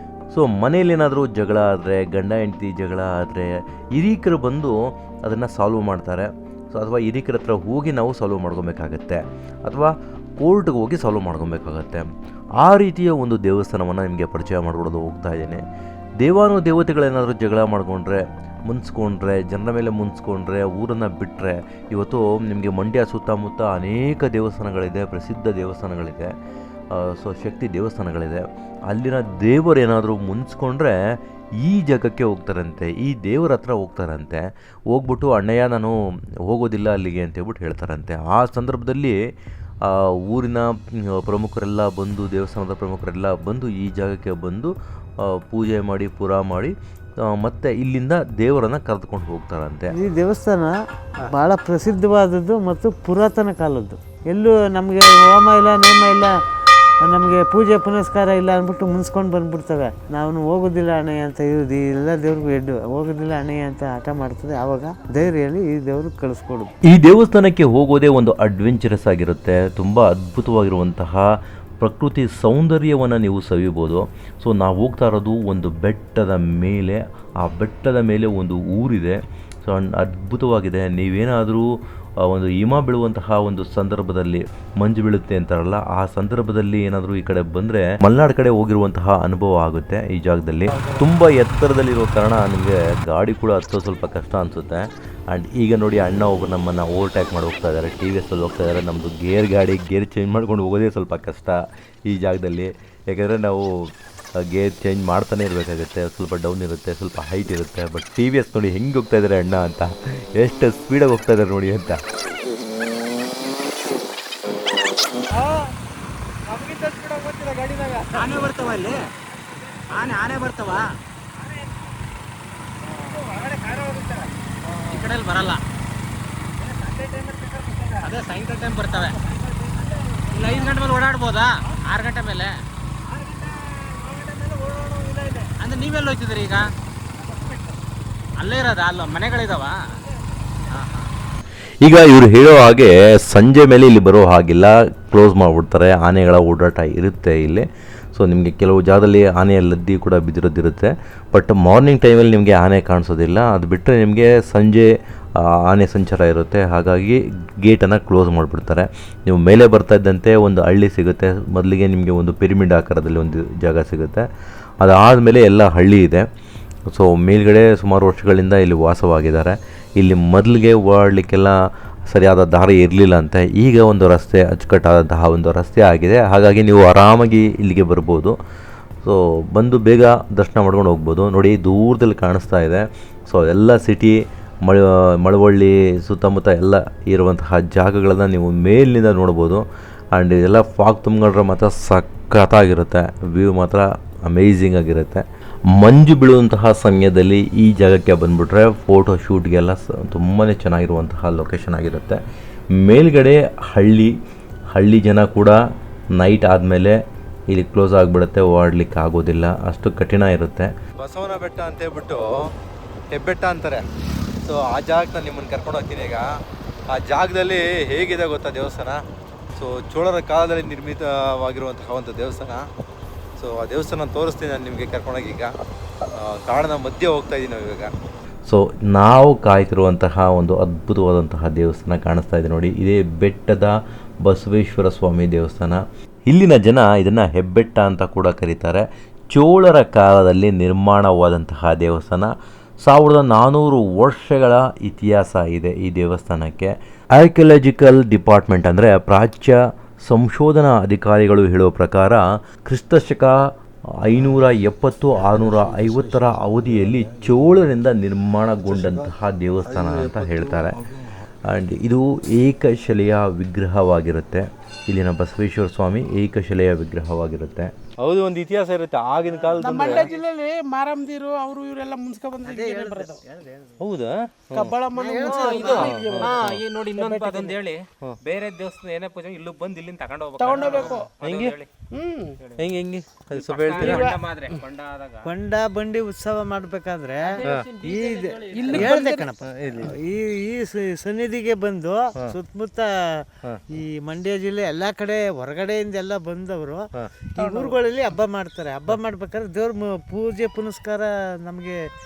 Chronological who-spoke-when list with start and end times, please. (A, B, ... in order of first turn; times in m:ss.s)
0:00.3-0:12.1 A
0:12.6-0:15.6 A
0:16.2-0:26.3 A
0:26.9-0:31.0 A
0:31.6-0:39.2 A
0:39.9-0:46.7 A
0:47.3-0:49.9 A
0:49.9-0:50.8 B
0:51.3-0:56.3 B
0:57.0-1:06.7 B
1:06.9-1:11.3 A
1:11.8-1:52.0 A
1:56.8-1:58.0 C
1:58.1-1:59.0 D
1:59.9-2:00.9 D
2:02.8-2:04.3 D
2:04.9-2:05.6 D
2:06.6-2:12.5 D
2:07.6-2:08.0 E
2:13.2-2:16.7 D
2:18.4-2:19.8 D
2:20.7-2:21.1 D
2:21.8-2:44.2 A
2:44.8-2:46.3 A
2:46.9-2:58.4 A
2:59.0-3:22.2 A
3:22.8-3:24.1 A
3:24.7-3:25.6 A
3:26.1-3:27.0 A
3:27.5-3:30.7 A
3:31.0-3:32.3 C
3:33.1-3:33.8 C
3:34.4-3:36.3 C
3:36.9-3:39.0 C
3:37.6-3:38.6 A
3:39.6-3:42.7 C
3:40.5-3:41.6 A
3:43.4-3:45.5 C
3:46.1-3:47.9 C
3:48.5-4:02.3 A
4:02.8-4:13.4 A
4:14.0-4:20.9 A
4:18.7-4:19.0 C
4:19.7-4:20.6 C
4:21.5-4:30.0 A
4:28.1-4:30.1 C
4:29.3-4:30.1 B
4:29.6-4:33.2 E
4:32.4-4:33.8 B
4:33.9-4:34.7 C
4:34.5-4:36.4 E
4:34.9-4:36.4 B
4:35.2-4:41.7 D
4:35.8-4:36.4 C
4:37.0-4:37.6 E
4:40.4-4:41.1 E
4:40.6-4:41.0 B
4:41.9-4:42.4 E
4:42.4-4:42.7 D
4:42.6-4:44.1 C
4:43.3-4:45.3 D
4:43.8-4:44.2 E
4:45.2-5:01.8 B
4:47.2-4:49.1 E
4:47.4-4:47.7 C
4:48.6-4:49.3 D
4:49.5-4:50.0 C
4:57.4-4:57.8 E